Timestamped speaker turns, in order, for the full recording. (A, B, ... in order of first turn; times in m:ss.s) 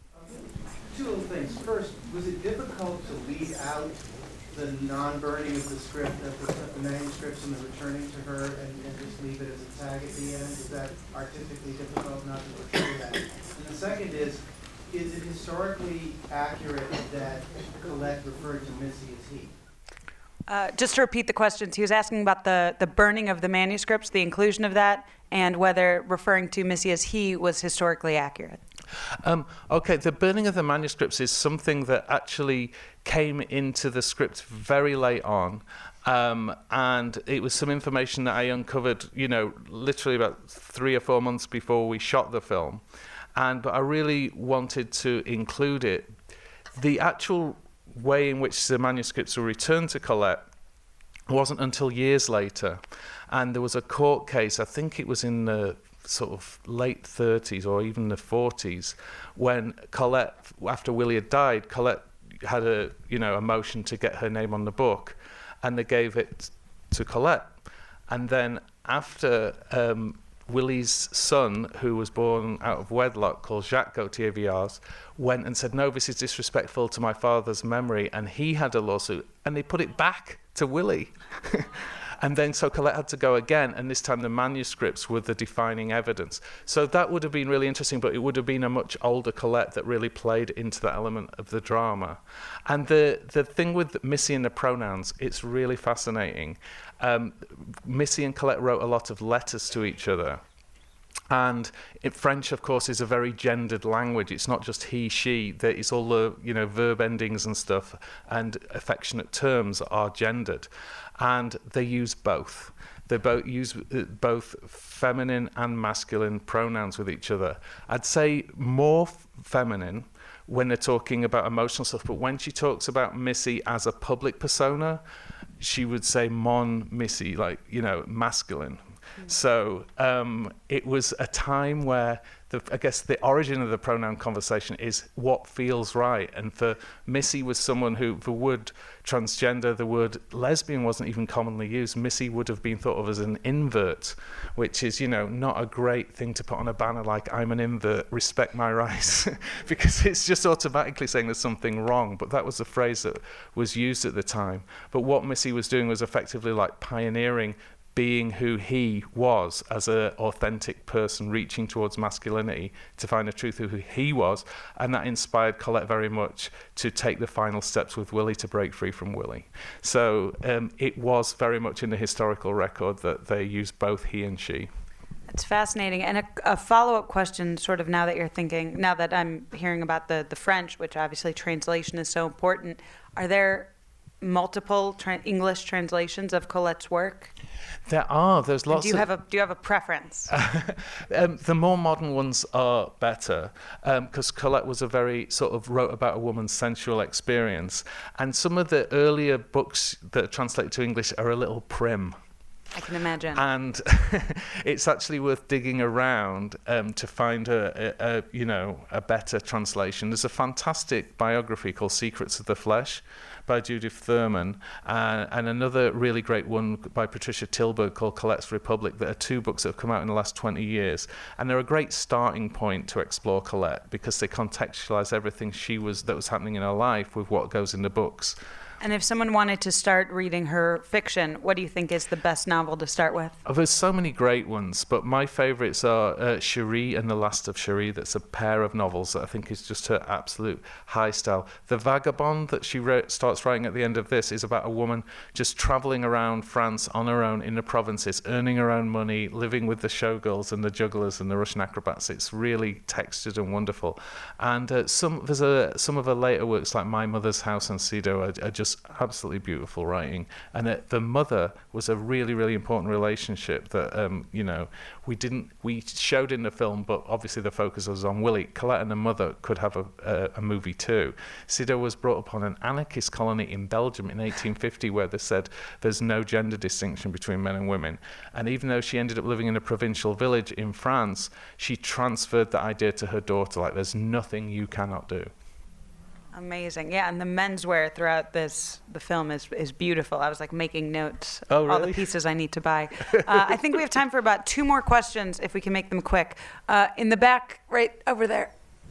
0:00.2-0:19.5 A
0:20.5-0:28.6 B
0:29.2-0:42.8 C
0:43.3-0:46.1 C
0:46.7-0:50.5 C
0:51.3-1:07.6 C
1:08.1-1:40.4 C
1:41.3-2:05.0 C
2:05.6-2:54.7 C
2:55.3-3:07.3 B
3:07.9-3:09.1 C
3:08.7-3:10.3 B
3:10.3-3:22.2 C
3:22.7-3:23.4 B
3:23.3-3:48.4 C
3:48.8-3:53.4 B
3:53.4-4:45.3 C
4:46.3-4:58.5 B
4:51.5-4:52.1 C
4:53.1-4:53.5 C